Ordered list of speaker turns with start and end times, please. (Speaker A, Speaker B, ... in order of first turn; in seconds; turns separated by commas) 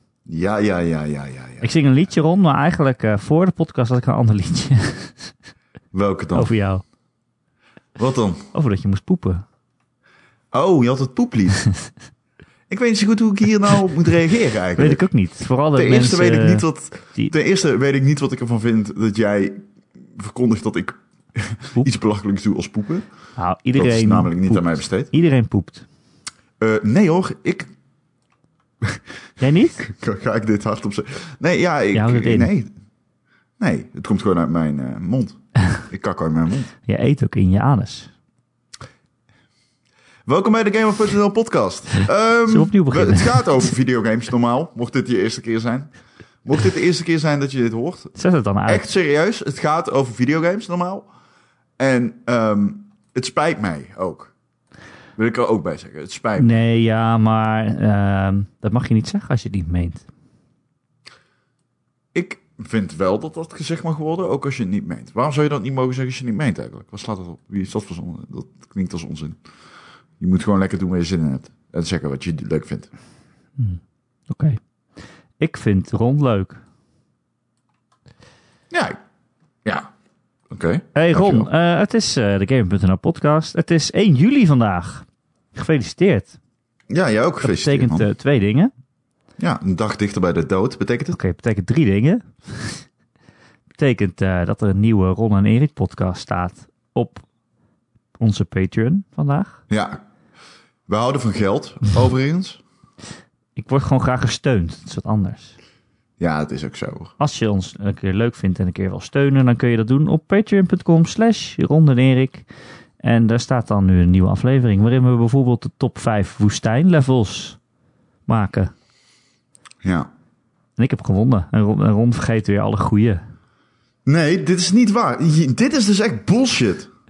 Speaker A: 0.3-1.7, Speaker B: 1.6-5.3, Speaker A: 5.9-6.5, Speaker B: 6.3-6.8, Speaker A: 8.0-8.5, Speaker B: 8.5-9.4, Speaker A: 10.5-11.6, Speaker A: 12.7-15.0, Speaker B: 14.8-17.3, Speaker A: 15.7-23.1, Speaker B: 23.4-25.9, Speaker A: 23.7-25.1, Speaker A: 26.6-27.7, Speaker B: 29.4-29.8, Speaker A: 29.8-32.7, Speaker B: 31.9-32.5, Speaker A: 33.6-36.7, Speaker B: 36.8-38.1, Speaker A: 40.2-45.9, Speaker B: 42.5-43.7, Speaker A: 46.4-48.1, Speaker B: 48.1-48.9, Speaker A: 48.7-51.1, Speaker A: 51.8-54.3, Speaker A: 55.2-56.5, Speaker B: 56.4-60.1, Speaker A: 62.1-69.4, Speaker A: 70.2-72.9, Speaker B: 73.6-74.6, Speaker B: 75.4-76.6, Speaker A: 78.7-79.0, Speaker A: 79.6-79.9, Speaker A: 80.5-81.5, Speaker B: 80.9-86.4, Speaker A: 86.9-88.1, Speaker B: 87.4-88.7, Speaker A: 89.4-91.2, Speaker B: 91.1-92.8, Speaker B: 93.8-97.2, Speaker B: 98.2-99.6, Speaker A: 99.7-100.0, Speaker A: 100.9-102.6, Speaker B: 103.5-105.5, Speaker A: 106.2-107.1, Speaker B: 107.2-112.5, Speaker B: 113.0-117.6, Speaker B: 118.3-118.7, Speaker A: 119.8-120.1, Speaker B: 120.8-123.2, Speaker A: 124.0-126.9